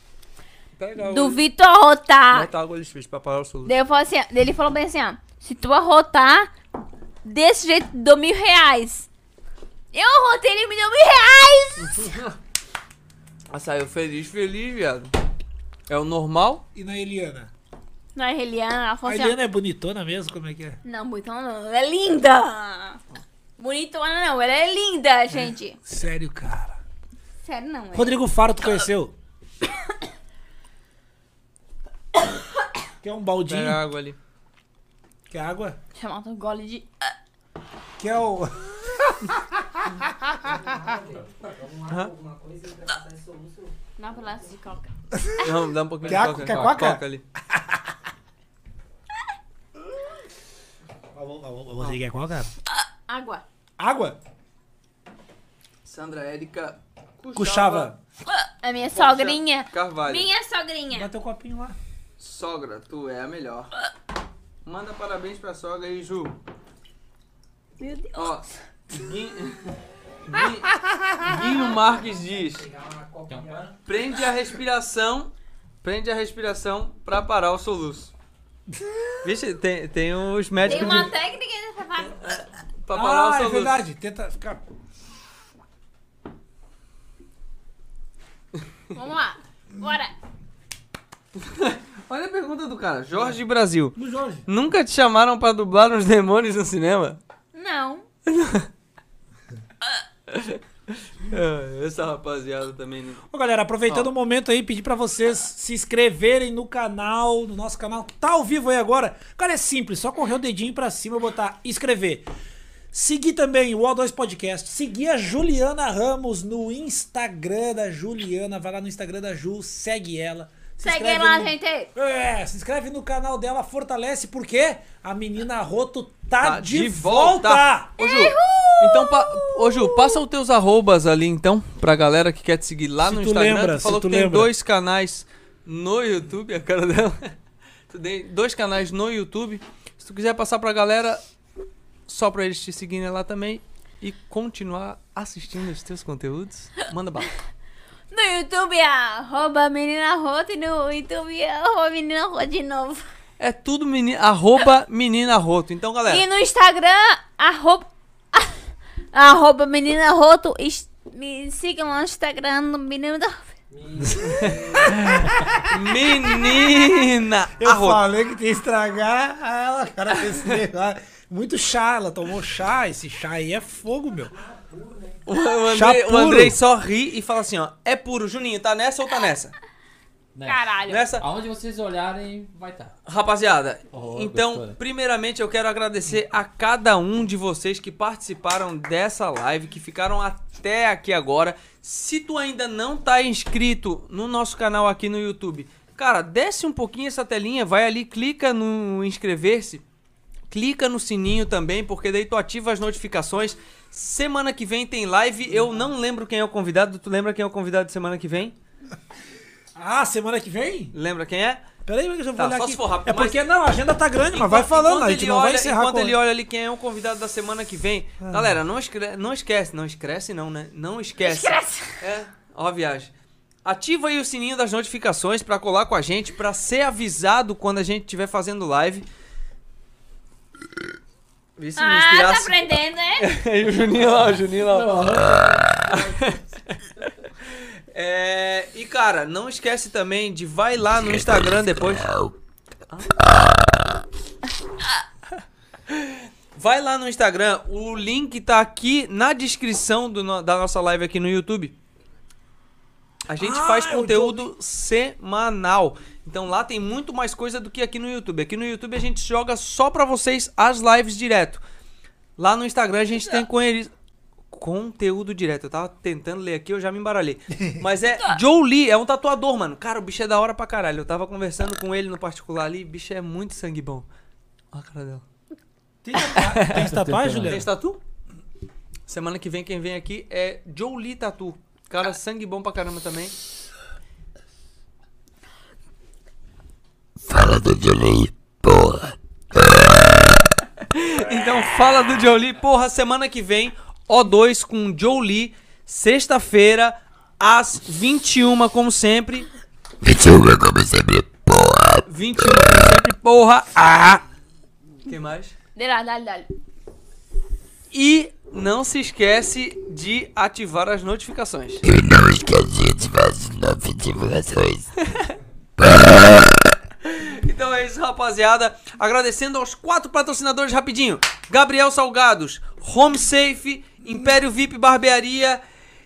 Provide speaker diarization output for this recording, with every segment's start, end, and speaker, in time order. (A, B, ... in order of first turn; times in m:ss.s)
0:00.8-0:01.4 A
0:01.0-0:02.5 B
0:02.3-0:03.8 A
0:03.7-0:06.5 B
0:07.2-0:09.1 B
0:09.9-0:12.1 B
0:11.8-0:12.4 A
0:13.5-0:15.1 A
0:15.9-0:16.6 A
0:16.7-0:17.5 C
0:18.2-0:19.4 B
0:19.0-0:20.8 C
0:20.8-0:23.0 B
0:23.6-0:25.8 B
0:25.8-0:26.8 C
0:27.4-0:28.2 B
0:27.9-0:29.1 C
0:33.0-0:33.8 C
0:33.5-0:34.2 A
0:35.3-0:35.8 C
0:36.0-0:36.9 B
0:38.0-0:41.0 C
0:40.4-0:44.6 D
0:44.0-0:44.9 B
0:45.1-0:45.5 C
0:45.4-0:47.2 A
0:46.0-0:46.7 E
0:46.0-0:47.8 C
0:51.1-0:52.5 C
0:53.1-0:53.4 B
0:53.8-0:54.2 C
0:55.8-0:57.9 A
0:57.4-0:58.0 C
0:58.4-1:01.1 B
0:58.9-1:00.3 A
1:00.9-1:01.8 C
1:02.2-1:03.7 A
1:04.6-1:06.4 A
1:07.8-1:08.4 B
1:08.2-1:09.8 A
1:10.3-1:12.7 A
1:12.0-1:13.8 D
1:13.3-1:13.6 E
1:13.9-1:15.3 A
1:15.8-1:18.1 A
1:19.2-1:21.1 A
1:20.6-1:22.2 B
1:22.2-1:23.8 A
1:22.9-1:24.6 C
1:28.9-1:30.1 B
1:31.4-1:34.0 A
1:34.0-1:34.5 C
1:34.5-1:37.2 A
1:37.5-1:38.0 B
1:38.3-1:38.7 A
1:40.3-1:43.2 A
1:43.3-1:52.3 C
1:52.9-2:07.9 C
2:00.8-2:01.9 B
2:06.4-2:17.3 A
2:08.0-2:10.2 B
2:13.0-2:14.5 C
2:17.9-2:21.2 A
2:22.1-2:27.3 A
2:28.1-2:33.0 B
2:33.4-2:36.2 A
2:36.1-2:38.6 B
2:39.1-2:43.5 B
2:43.7-2:45.6 D
2:44.0-2:45.7 C
2:44.2-2:48.0 A
2:46.4-2:47.0 B
2:47.6-2:54.3 C
2:54.3-2:55.2 D
2:55.3-2:59.6 A
2:55.7-2:56.6 C
3:00.4-3:00.6 E
3:00.5-3:01.1 B
3:00.9-3:01.2 A
3:01.2-3:02.9 E
3:03.1-3:19.8 A
3:03.9-3:04.8 E
3:20.5-3:28.6 A
3:29.8-3:31.0 C
3:30.9-3:31.7 A
3:31.9-3:36.2 C
3:32.4-3:33.4 A
3:34.3-3:43.1 A
3:38.2-3:38.5 C
3:41.2-3:42.0 B
3:43.6-3:49.1 A
3:51.6-3:52.6 A
3:51.8-3:53.3 B
3:53.2-3:55.1 A
3:54.7-3:55.4 E
3:54.7-3:56.2 D
3:55.9-3:56.8 A
3:57.5-4:02.1 A
4:01.0-4:02.4 F
4:03.3-4:03.9 F
4:05.9-4:11.8 A
4:13.3-4:21.6 A
4:13.4-4:14.5 C
4:22.4-4:23.9 A
4:24.5-4:34.1 A
4:34.7-4:35.2 A
4:36.0-4:37.7 C
4:36.3-4:36.9 A
4:36.7-4:37.6 E
4:37.4-4:38.0 A
4:39.1-4:43.3 A
4:47.2-4:50.2 F
4:50.9-4:59.5 A
5:00.0-5:02.1 F
5:02.1-5:04.2 A
5:05.1-5:05.6 A
5:05.8-5:06.5 B
5:07.9-5:11.8 A
5:11.8-5:14.9 F
5:15.8-5:16.6 F
5:17.0-5:25.6 A